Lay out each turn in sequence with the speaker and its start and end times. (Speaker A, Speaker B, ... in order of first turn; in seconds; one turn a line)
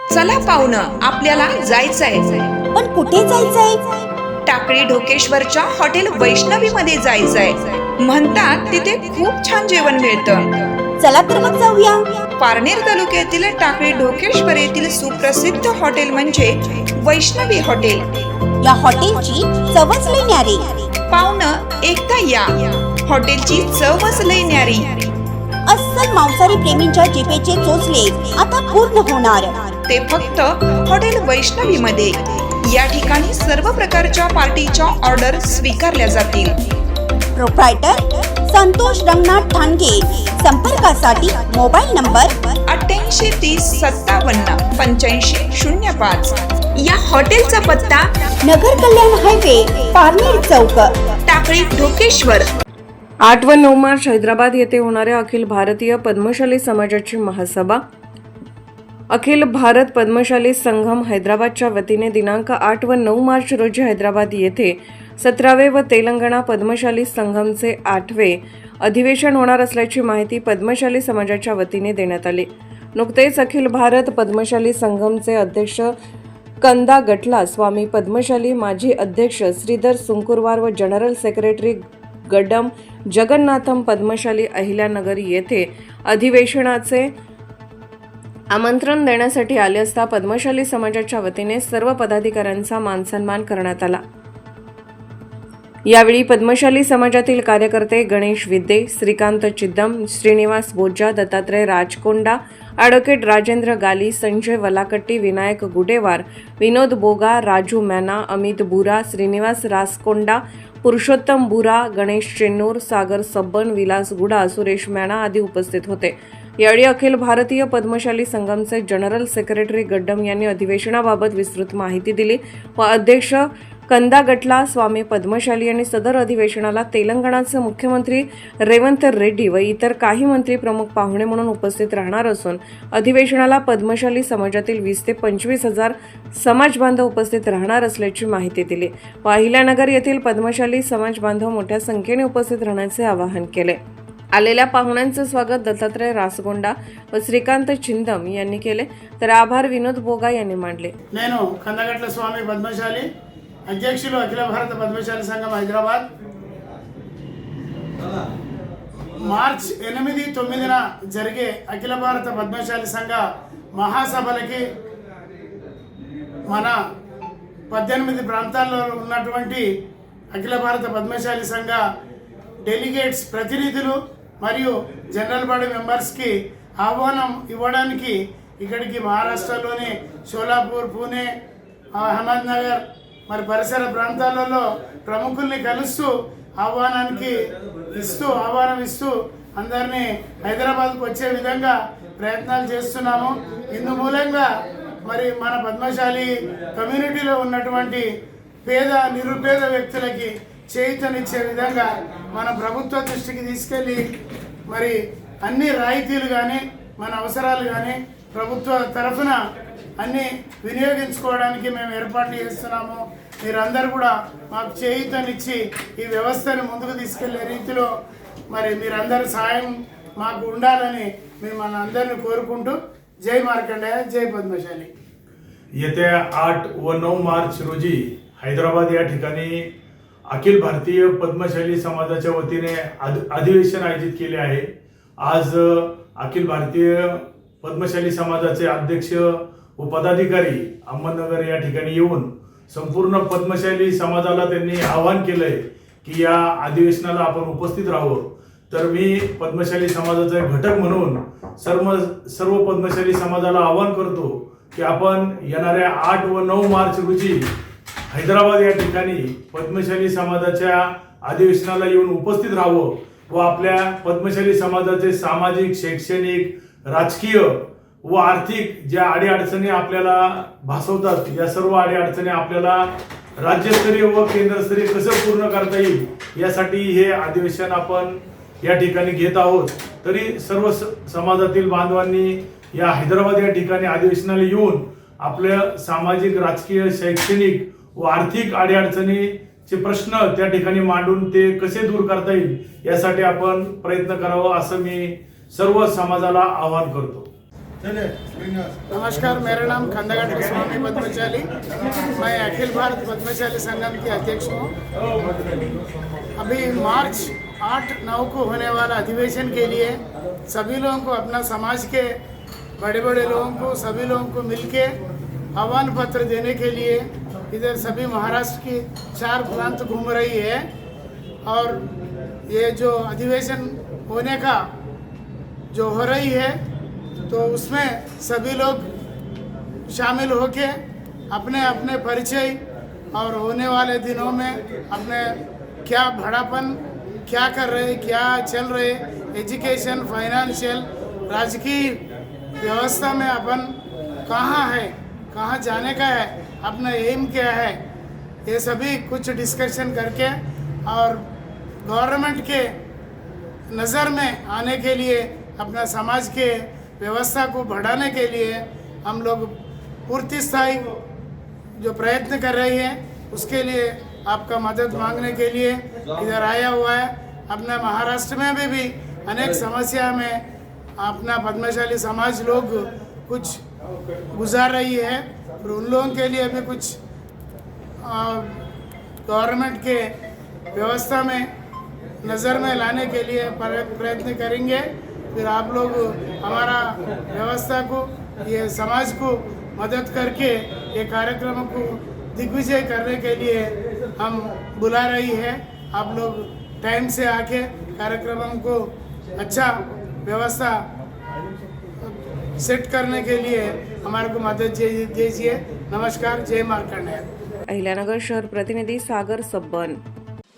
Speaker A: 0.1-2.5
Speaker B: 2.7-3.9
Speaker A: 4.5-10.7
Speaker B: 11.0-12.1
Speaker A: 12.4-18.3
Speaker B: 18.6-20.9
Speaker A: 21.1-25.1
Speaker B: 25.7-29.7
Speaker A: 29.9-36.6
Speaker B: 37.4-42.3
Speaker A: 42.7-48.1
Speaker B: 48.5-51.0
Speaker A: 51.3-52.5
Speaker C: 53.2-57.8
Speaker C: 59.1-75.9
Speaker C: 76.6-87.1
Speaker C: 88.5-94.0
Speaker C: 95.9-143.8
Speaker C: 144.3-150.9
Speaker D: 151.1-153.1
Speaker D: 153.7-156.1
Speaker D: 159.2-163.2
Speaker D: 163.8-164.6
Speaker D: 166.5-166.8
Speaker D: 167.7-169.7
Speaker D: 170.3-171.8
Speaker D: 172.7-181.3
Speaker D: 182.0-187.4
Speaker D: 187.9-194.5
Speaker D: 195.1-198.1
Speaker D: 198.7-204.0
Speaker D: 204.7-209.4
Speaker D: 210.0-217.9
Speaker D: 218.5-224.9
Speaker E: 225.8-229.7
Speaker E: 230.3-234.7
Speaker E: 235.2-257.5
Speaker E: 258.1-297.3
Speaker D: 298.9-304.7
Speaker D: 306.4-310.0
Speaker D: 310.5-312.1
Speaker D: 312.8-314.9
Speaker D: 315.6-320.6
Speaker D: 321.5-321.8
Speaker D: 322.5-324.6
Speaker D: 325.7-326.5
Speaker D: 327.3-328.9
Speaker D: 329.9-330.8
Speaker D: 331.3-332.6
Speaker D: 333.1-335.3
Speaker D: 335.9-336.8
Speaker D: 337.3-342.0
Speaker D: 342.6-343.7
Speaker D: 344.3-347.8
Speaker D: 348.5-350.4
Speaker D: 350.9-351.2
Speaker D: 351.9-352.7
Speaker D: 353.7-359.5
Speaker D: 360.1-360.9
Speaker D: 361.8-370.4
Speaker D: 371.0-373.6
Speaker D: 374.3-377.0
Speaker D: 378.1-378.6
Speaker D: 379.3-380.1
Speaker D: 380.7-381.5
Speaker D: 382.2-398.8
Speaker D: 399.4-399.7
Speaker D: 400.2-400.8
Speaker D: 402.1-407.2
Speaker C: 407.7-410.0